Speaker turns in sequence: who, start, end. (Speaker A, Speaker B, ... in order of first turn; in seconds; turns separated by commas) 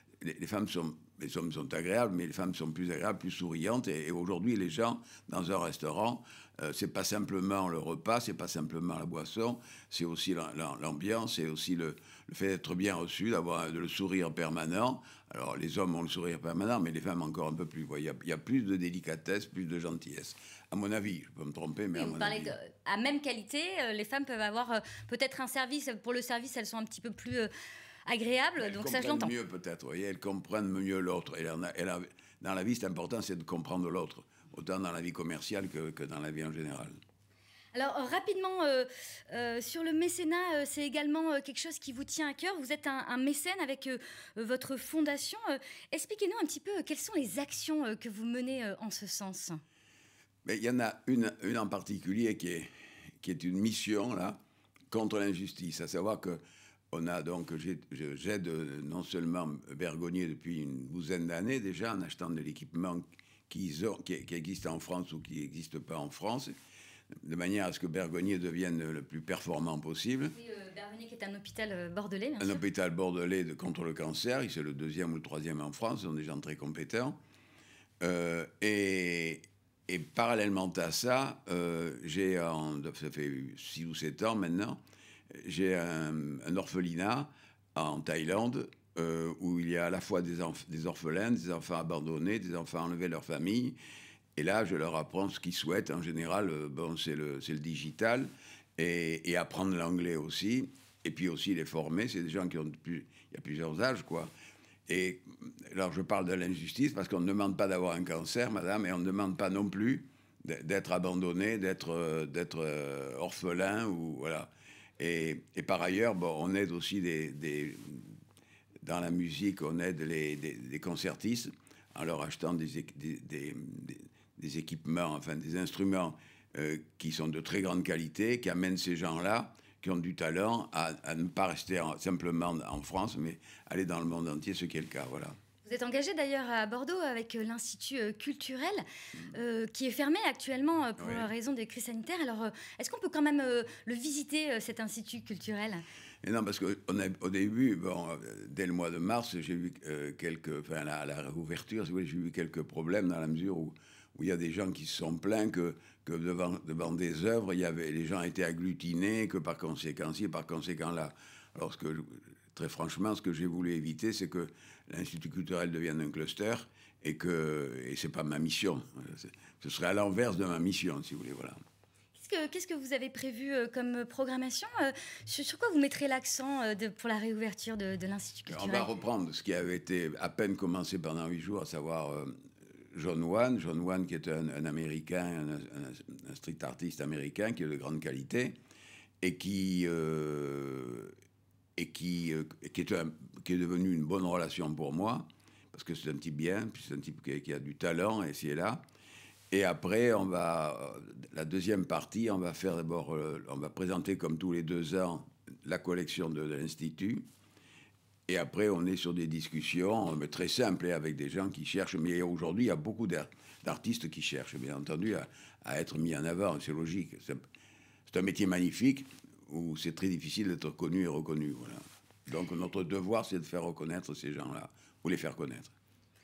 Speaker A: 0.2-22.5, Speaker B: 21.9-27.5, Speaker B: 28.1-29.3, Speaker A: 28.6-36.9, Speaker B: 37.7-49.6, Speaker A: 50.4-52.7, Speaker A: 53.2-54.4, Speaker A: 54.9-56.4, Speaker A: 56.9-66.5, Speaker A: 67.2-70.3, Speaker B: 70.3-72.6, Speaker A: 72.4-77.2, Speaker A: 78.0-84.8, Speaker A: 85.3-93.8, Speaker A: 94.3-104.3, Speaker A: 104.9-118.1, Speaker A: 118.8-135.3, Speaker B: 135.6-145.8, Speaker A: 141.0-141.2, Speaker A: 146.2-171.6, Speaker B: 172.1-178.9, Speaker A: 178.5-182.3, Speaker A: 182.9-188.5, Speaker A: 189.2-191.1, Speaker A: 191.8-198.8, Speaker A: 199.5-207.2, Speaker A: 208.3-217.4, Speaker A: 218.1-225.7